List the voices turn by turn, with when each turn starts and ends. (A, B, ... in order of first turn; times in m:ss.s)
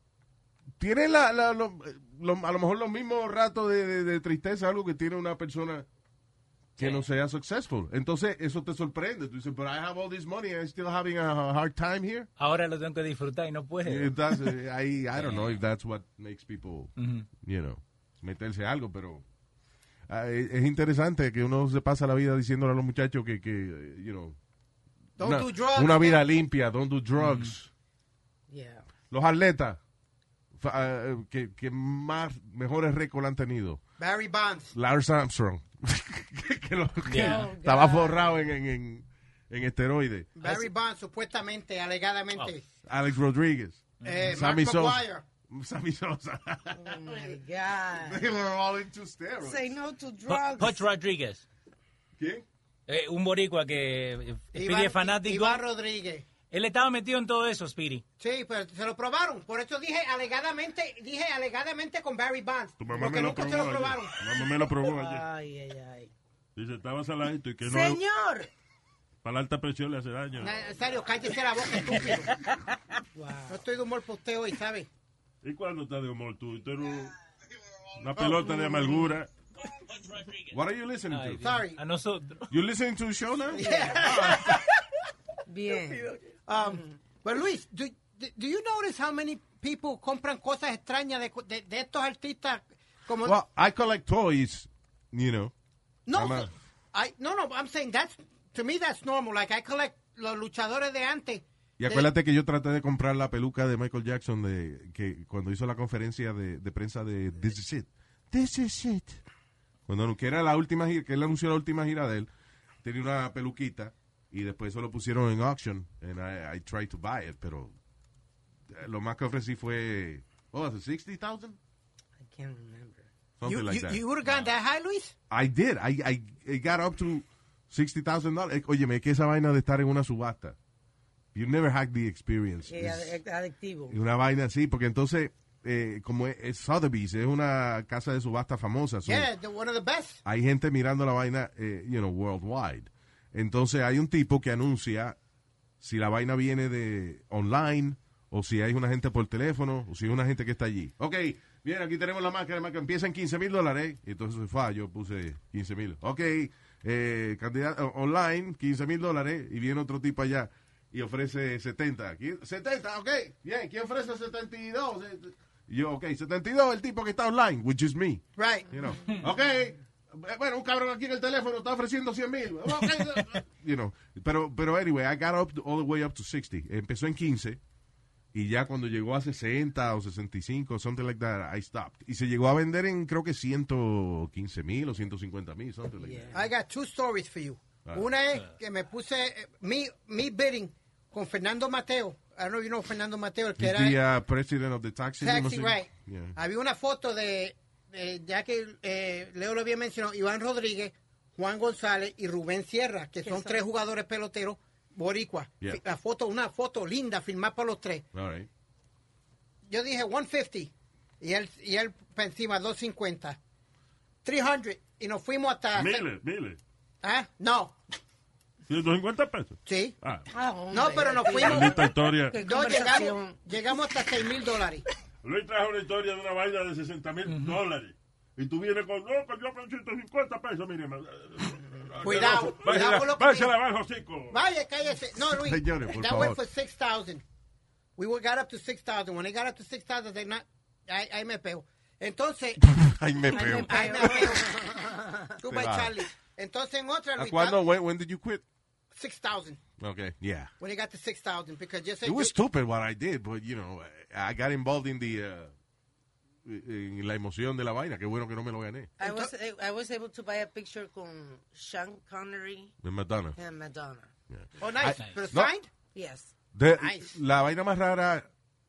0:00.8-0:05.9 A
0:06.8-0:12.3 A
0:06.8-0:07.1 B
0:12.4-0:14.5 B
0:13.8-0:19.2 A
0:15.1-0:15.6 B
0:17.0-0:17.3 B
0:20.1-0:24.4 A
0:25.2-0:26.2 C
0:25.2-0:27.7 A
0:27.2-0:27.5 B
0:28.5-0:28.8 D
0:29.1-0:29.8 A
0:30.5-0:33.8 A
0:34.0-0:34.7 C
0:34.7-0:40.7 A
0:37.1-0:37.5 B
0:37.2-0:38.4 D
0:40.4-0:42.6 C
0:42.8-0:47.4 A
0:44.0-0:45.2 C
0:46.8-0:48.3 D
0:48.0-0:49.8 A
0:49.4-0:50.8 D
0:50.3-0:51.4 B
0:52.2-0:52.4 A
0:52.9-0:55.6 B
0:54.5-0:56.2 C
0:56.5-0:58.0 B
0:58.2-1:04.2 C
1:02.8-1:05.2 E
1:04.8-1:06.1 D
1:06.6-1:08.0 E
1:07.6-1:08.5 D
1:09.2-1:10.7 E
1:10.4-1:12.4 C
1:13.1-1:13.6 D
1:13.5-1:14.9 C
1:15.4-1:17.1 E
1:18.0-1:19.3 E
1:18.2-1:18.8 C
1:20.5-1:21.6 A
1:21.1-1:22.5 B
1:21.4-1:21.8 C
1:22.5-1:24.6 A
1:23.5-1:24.6 C
1:23.5-1:24.4 D
1:25.5-1:26.1 D
1:26.5-1:33.4 C
1:33.2-1:35.5 A
1:36.1-1:42.1 C
1:36.1-1:36.5 A
1:41.8-1:49.2 A
1:49.9-1:52.3 A
1:52.8-1:57.7 A
1:58.7-2:01.6 A
2:02.2-2:03.1 D
2:03.4-2:04.0 A
2:03.4-2:05.2 C
2:05.3-2:10.6 A
2:11.3-2:13.2 A
2:12.7-2:14.0 D
2:13.9-2:19.3 A
2:19.0-2:20.2 C
2:20.2-2:25.2 A
2:25.8-2:57.6 A
2:48.4-2:48.7 C
2:58.3-3:06.4 A
3:06.0-3:06.4 D
3:06.3-3:14.0 C
3:13.6-3:16.4 A
3:15.2-3:28.1 C
3:23.2-3:23.6 D
3:28.1-3:28.5 A
3:29.7-3:33.4 C
3:34.2-3:36.1 C
3:35.7-3:36.6 E
3:37.0-3:37.7 C
3:38.7-3:40.3 E
3:39.7-3:40.0 C
3:40.3-3:43.4 D
3:40.7-3:41.9 C
3:41.3-3:42.4 E
3:42.4-3:44.8 C
3:45.2-3:54.4 E
3:47.3-3:47.6 B
3:52.0-3:53.6 C
3:54.3-3:57.2 C
3:55.2-3:56.4 A
3:58.0-4:02.6 C
4:02.6-4:04.3 A
4:03.3-4:05.4 D
4:03.3-4:07.6 C
4:05.5-4:06.0 A
4:07.2-4:08.4 A
4:08.9-4:09.6 C
4:09.8-4:10.5 A
4:10.6-4:12.3 C
4:12.0-4:15.5 A
4:16.4-4:18.9 A
4:19.0-4:22.7 D
4:19.0-4:19.3 C
4:22.8-4:23.4 A
4:23.4-4:24.1 D
4:24.3-4:25.5 A
4:24.6-4:25.7 C
4:25.9-4:26.3 D
4:26.6-4:28.3 A
4:26.8-4:27.1 C